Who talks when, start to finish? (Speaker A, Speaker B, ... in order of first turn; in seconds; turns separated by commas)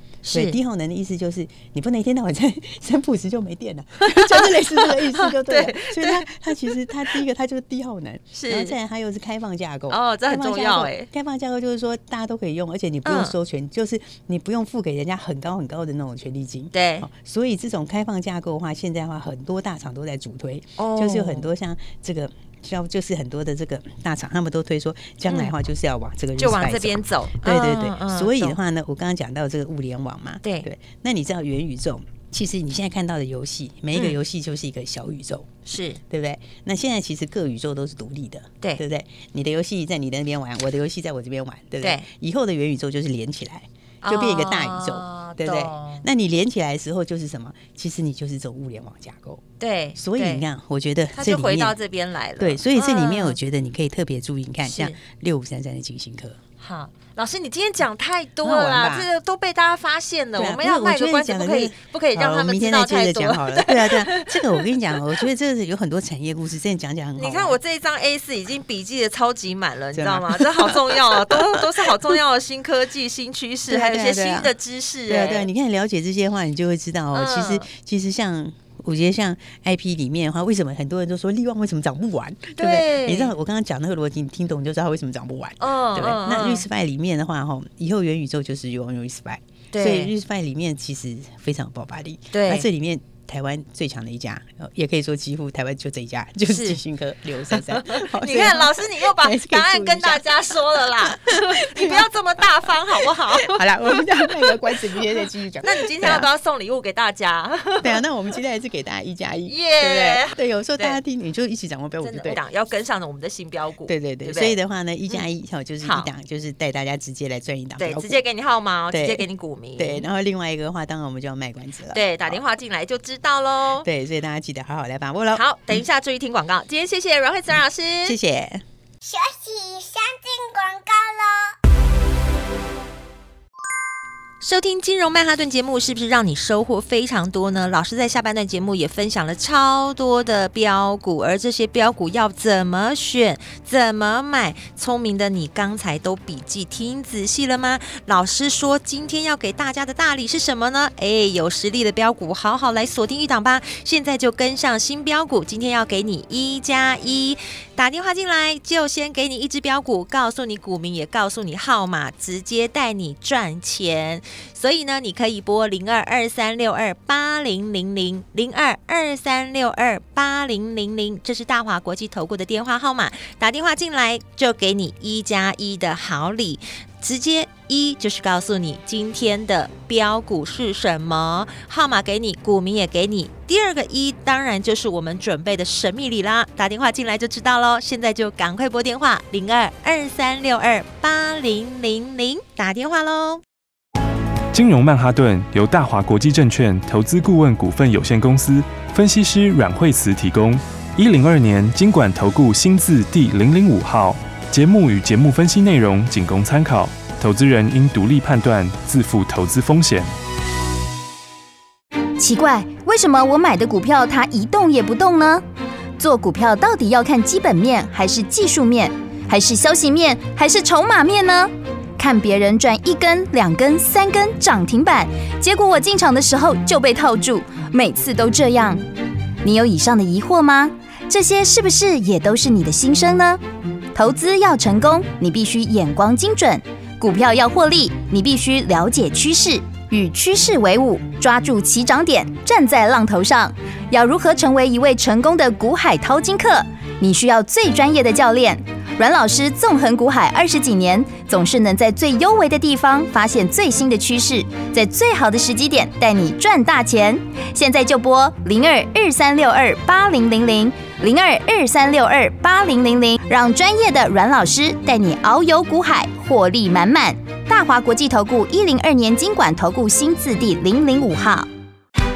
Speaker A: 0.2-0.6, Speaker B: 0.3-49.4, Speaker A: 4.0-7.2, Speaker A: 8.3-8.8, Speaker A: 9.9-11.1, Speaker A: 13.0-13.4, Speaker A: 16.7-17.1, Speaker A: 20.8-21.5, Speaker A: 25.3-25.5, Speaker A: 26.4-28.6, Speaker A: 30.4-30.7, Speaker A: 35.6-36.0, Speaker A: 41.8-42.1, Speaker A: 44.0-46.0, Speaker A: 49.6-50.4, Speaker B: 50.0-51.8, Speaker A: 51.1-53.4, Speaker B: 52.4-56.4, Speaker A: 54.6-55.0, Speaker A: 56.6-65.0, Speaker B: 58.4-59.1, Speaker B: 60.4-67.6, Speaker A: 67.2-75.5, Speaker B: 69.9-72.2, Speaker B: 73.7-74.5, Speaker B: 75.1-106.3, Speaker A: 77.1-77.7, Speaker A: 82.5-83.3, Speaker A: 85.6-86.6, Speaker A: 89.7-90.1, Speaker A: 92.3-92.7, Speaker A: 96.5-96.8, Speaker A: 97.5-104.8, Speaker A: 105.6-108.0, Speaker B: 107.8-112.4, Speaker A: 109.5-111.0, Speaker A: 112.0-115.2, Speaker B: 113.9-118.2, Speaker A: 115.8-116.1, Speaker A: 117.8-120.0, Speaker B: 118.9-122.4, Speaker A: 121.9-123.9, Speaker B: 123.8-125.4, Speaker A: 125.3-128.2, Speaker B: 128.0-128.6, Speaker C: 129.0-131.5, Speaker A: 134.4-193.4, Speaker D: 194.5-210.1, Speaker E: 212.2-215.4, Speaker E: 216.0-228.8, Speaker E: 229.4-233.4, Speaker E: 233.9-271.5